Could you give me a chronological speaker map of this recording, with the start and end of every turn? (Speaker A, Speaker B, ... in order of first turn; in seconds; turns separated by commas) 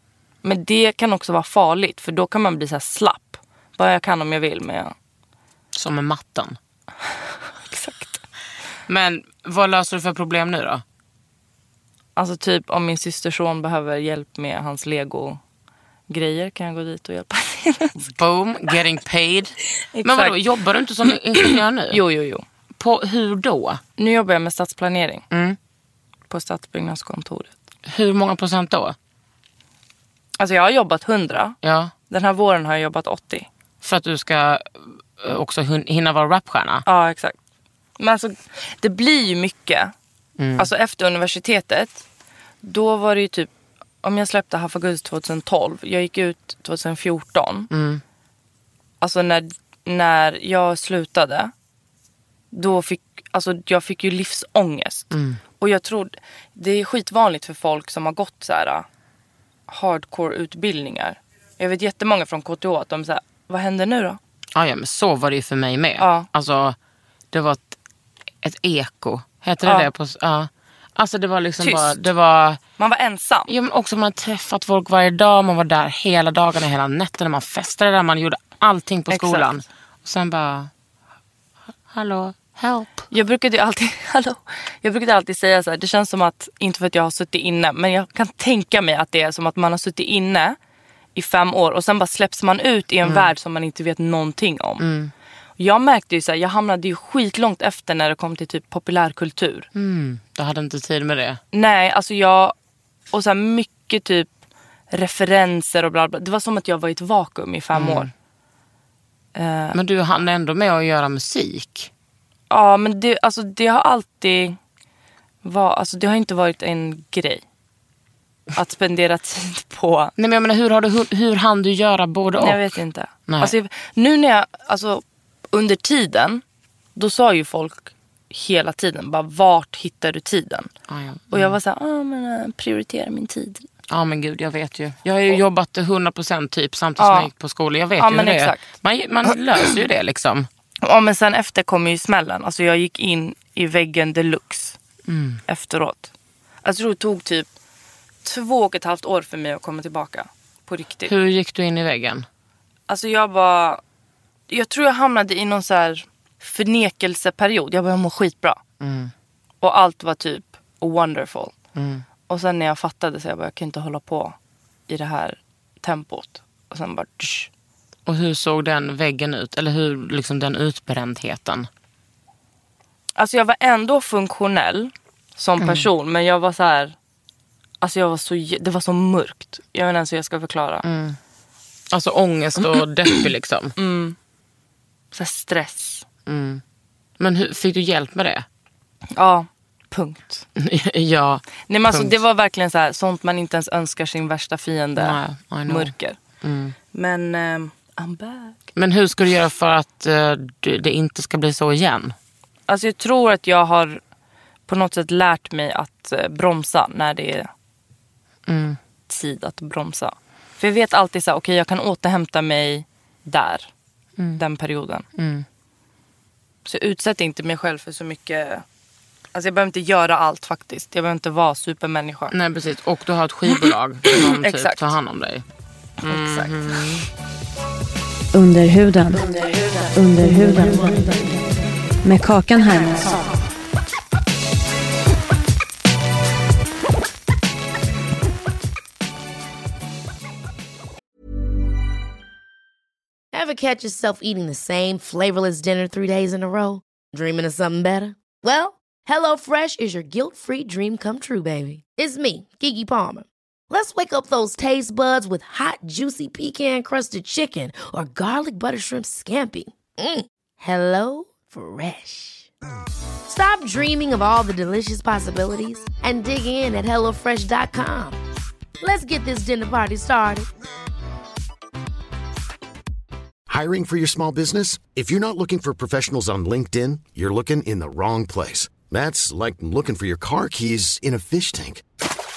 Speaker A: 0.4-4.9, Speaker B: 5.7-6.6, Speaker A: 7.7-8.2, Speaker B: 8.9-10.8, Speaker A: 12.2-15.4, Speaker A: 16.1-17.9, Speaker B: 17.9-22.0, Speaker A: 19.9-20.4, Speaker A: 21.4-22.4, Speaker B: 22.8-23.8, Speaker A: 24.0-25.2, Speaker B: 25.3-25.6, Speaker A: 26.3-27.6, Speaker B: 27.9-28.9, Speaker A: 30.4-31.6, Speaker B: 31.6-31.9, Speaker A: 32.1-33.5, Speaker B: 33.8-36.8, Speaker A: 36.9-37.4, Speaker A: 38.0-39.9, Speaker B: 40.4-40.7, Speaker A: 40.6-42.0, Speaker A: 42.6-43.5, Speaker A: 44.0-47.7, Speaker B: 47.7-48.0, Speaker A: 49.0-51.5, Speaker A: 52.5-58.9, Speaker B: 55.1-55.4, Speaker A: 59.7-64.2, Speaker B: 64.5-66.8, Speaker A: 66.0-66.3, Speaker B: 67.3-67.8, Speaker B: 68.4-72.6, Speaker A: 69.6-69.9, Speaker A: 71.6-72.1, Speaker A: 72.8-73.5, Speaker B: 73.5-80.7, Speaker A: 79.1-79.5, Speaker B: 81.9-83.0, Speaker A: 83.1-90.6, Speaker A: 91.1-94.8, Speaker B: 93.0-93.3, Speaker B: 94.8-95.1, Speaker A: 95.6-99.7, Speaker B: 99.7-101.4, Speaker A: 101.5-102.5, Speaker A: 103.1-104.3, Speaker A: 104.9-108.1, Speaker B: 107.7-108.1, Speaker A: 109.3-109.8, Speaker B: 109.7-111.9, Speaker A: 112.5-114.6, Speaker A: 115.4-117.4, Speaker A: 118.5-120.1, Speaker B: 120.2-122.7, Speaker A: 122.4-126.4, Speaker B: 123.3-123.5, Speaker A: 127.0-130.7, Speaker B: 130.9-131.6, Speaker A: 131.3-133.7, Speaker B: 133.9-140.5, Speaker A: 137.0-137.3, Speaker A: 138.0-138.7, Speaker A: 140.8-144.8, Speaker B: 145.1-145.4, Speaker A: 145.5-146.1, Speaker A: 146.6-147.5, Speaker A: 148.2-151.1, Speaker B: 151.1-152.3, Speaker A: 152.9-153.8, Speaker A: 154.5-158.6, Speaker B: 158.8-159.1, Speaker A: 159.6-161.5, Speaker B: 161.7-162.1, Speaker A: 162.3-164.4, Speaker A: 164.9-167.5, Speaker B: 168.1-171.7, Speaker A: 173.2-176.9, Speaker B: 175.6-175.9, Speaker A: 177.8-180.8, Speaker B: 180.8-181.2, Speaker B: 181.9-183.8, Speaker A: 183.8-184.2, Speaker A: 185.1-186.0, Speaker B: 186.2-186.6, Speaker B: 187.2-188.4, Speaker A: 189.1-190.4, Speaker B: 190.6-192.2, Speaker A: 191.7-196.2, Speaker B: 194.9-196.8, Speaker A: 196.9-198.6, Speaker B: 198.8-202.2, Speaker A: 202.7-204.0, Speaker A: 204.7-207.5, Speaker B: 208.5-208.8, Speaker A: 209.1-213.7, Speaker A: 214.3-215.1, Speaker B: 215.1-215.4, Speaker A: 216.6-218.6, Speaker A: 219.3-222.3, Speaker B: 222.3-225.4, Speaker A: 223.5-224.9, Speaker B: 226.0-227.1, Speaker A: 226.1-226.8, Speaker C: 228.3-231.4, Speaker C: 232.0-233.4, Speaker D: 243.3-262.5, Speaker D: 263.2-268.2, Speaker D: 268.8-270.5, Speaker E: 273.5-281.8